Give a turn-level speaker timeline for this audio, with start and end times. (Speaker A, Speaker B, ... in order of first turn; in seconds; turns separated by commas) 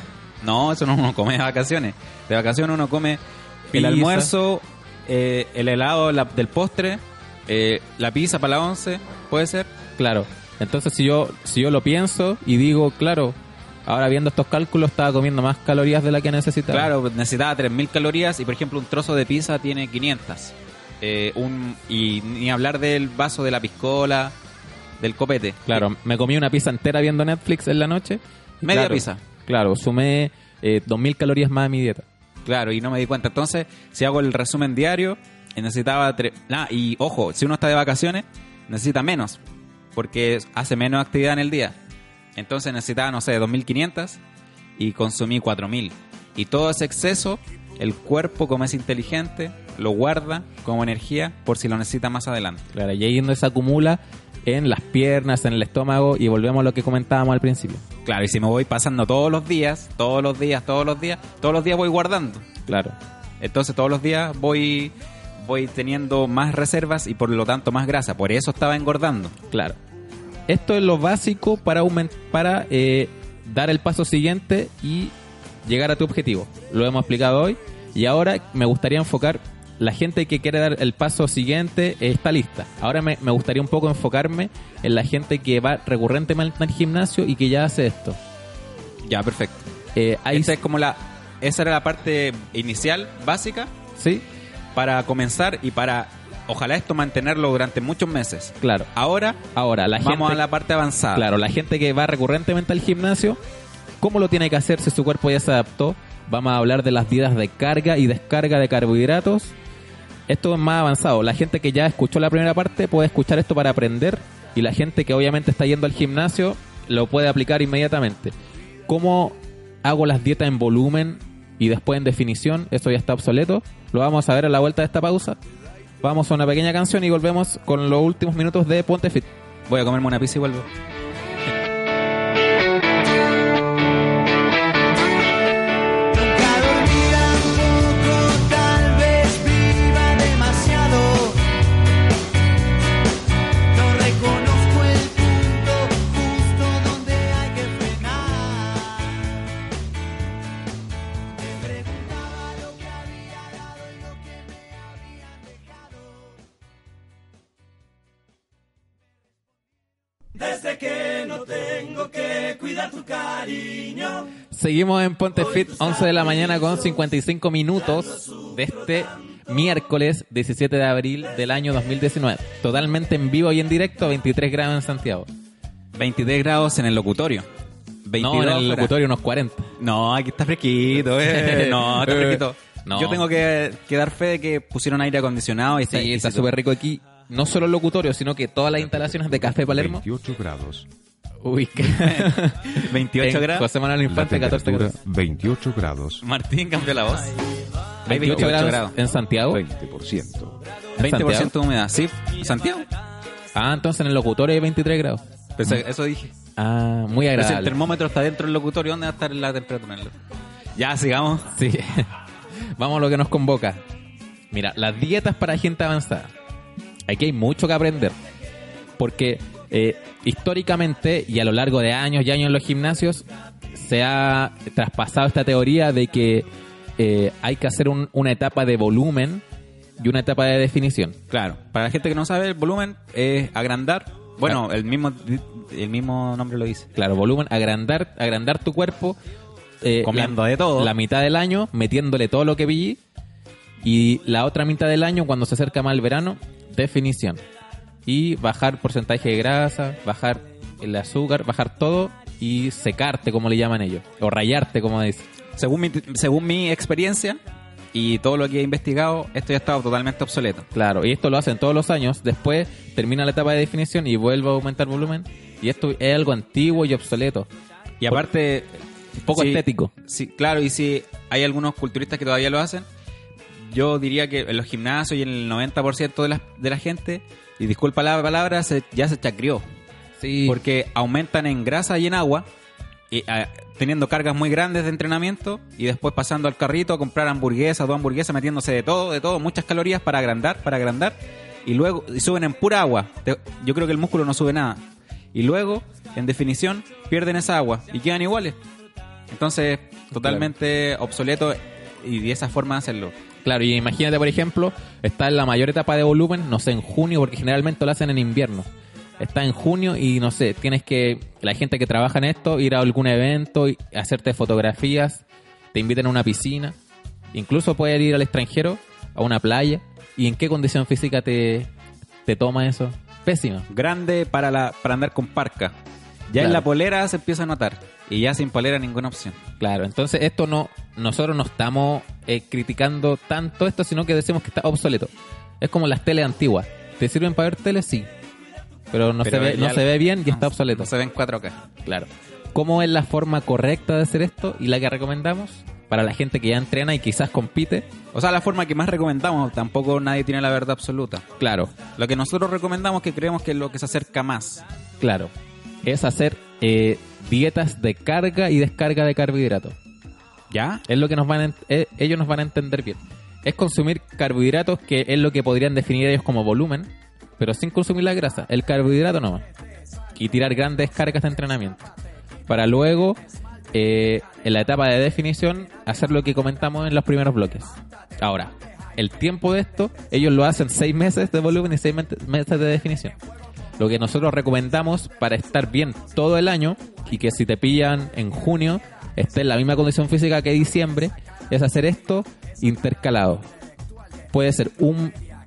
Speaker A: 0.4-9.7, Speaker B: 3.7-4.3, Speaker B: 10.0-16.9, Speaker A: 16.7-24.4, Speaker A: 25.0-25.8, Speaker B: 25.7-32.1, Speaker A: 28.6-29.2, Speaker A: 32.5-39.4, Speaker A: 40.0-41.8, Speaker A: 42.4-44.2, Speaker A: 44.8-52.7, Speaker B: 52.7-57.8, Speaker A: 58.0-62.5, Speaker B: 62.7-63.0, Speaker A: 63.4-69.4, Speaker B: 69.5-69.8, Speaker B: 70.5-75.1, Speaker B: 75.7-88.2, Speaker A: 89.0-89.7, Speaker B: 90.0-90.6, Speaker A: 90.3-93.7, Speaker B: 94.0-94.2, Speaker A: 94.8-99.5, Speaker B: 98.6-98.9, Speaker B: 99.5-100.4, Speaker A: 100.0-101.3, Speaker B: 101.1-103.4, Speaker B: 104.0-109.5, Speaker B: 110.3-118.3, Speaker B: 118.9-125.4, Speaker B: 126.0-129.3, Speaker A: 129.7-130.7, Speaker C: 136.1-141.4, Speaker C: 143.7-149.4, Speaker C: 151.3-156.4, Speaker C: 160.4-164.2, Speaker B: 164.5-175.3, Speaker A: 175.9-177.5, Speaker A: 178.1-178.9, Speaker B: 178.2-179.7, Speaker A: 179.8-186.5, Speaker B: 181.3-183.2, Speaker B: 185.9-190.0, Speaker D: 188.8-190.9, Speaker B: 191.4-194.9, Speaker A: 191.8-193.7, Speaker D: 194.1-196.2, Speaker A: 196.2-197.3, Speaker A: 198.1-199.0, Speaker B: 198.1-199.6, Speaker D: 199.5-200.6, Speaker A: 201.0-202.9, Speaker B: 201.0-201.5, Speaker B: 203.5-205.8, Speaker A: 205.6-206.3, Speaker B: 206.6-207.8, Speaker A: 207.3-210.2, Speaker A: 210.8-211.5, Speaker B: 211.5-212.1, Speaker B: 212.7-213.8, Speaker B: 214.5-216.3, Speaker B: 217.1-218.2, Speaker B: 219.0-226.5, Speaker B: 227.0-229.4, Speaker B: 230.0-231.2, Speaker A: 231.3-236.9, Speaker B: 236.9-239.2, Speaker B: 239.8-243.0, Speaker A: 240.0-240.9, Speaker B: 243.8-247.4, Speaker B: 248.1-255.2, Speaker A: 255.6-257.4, Speaker A: 257.9-260.7, Speaker B: 260.7-267.5, Speaker A: 268.0-268.8, Speaker B: 269.2-269.9, Speaker A: 269.3-272.9, Speaker A: 273.6-279.6, Speaker B: 280.2-280.6, Speaker A: 280.5-282.5, Speaker A: 283.1-298.6, Speaker A: 299.3-303.1, Speaker B: 300.2-300.5, Speaker B: 303.4-308.7, Speaker B: 309.2-316.8, Speaker B: 317.3-321.7, Speaker B: 322.2-323.7, Speaker A: 323.7-325.8, Speaker A: 326.3-329.4, Speaker B: 326.4-326.6, Speaker B: 329.6-338.1, Speaker B: 338.9-340.9, Speaker A: 339.2-341.6, Speaker B: 341.9-347.9, Speaker A: 348.1-351.3, Speaker B: 351.4-351.8, Speaker A: 352.0-354.7, Speaker B: 355.0-355.3, Speaker B: 355.8-359.8, Speaker A: 360.5-360.8, Speaker B: 360.9-369.4, Speaker B: 370.1-371.9, Speaker B: 372.5-373.2, Speaker B: 373.7-383.2, Speaker B: 383.8-393.4, Speaker B: 394.3-395.1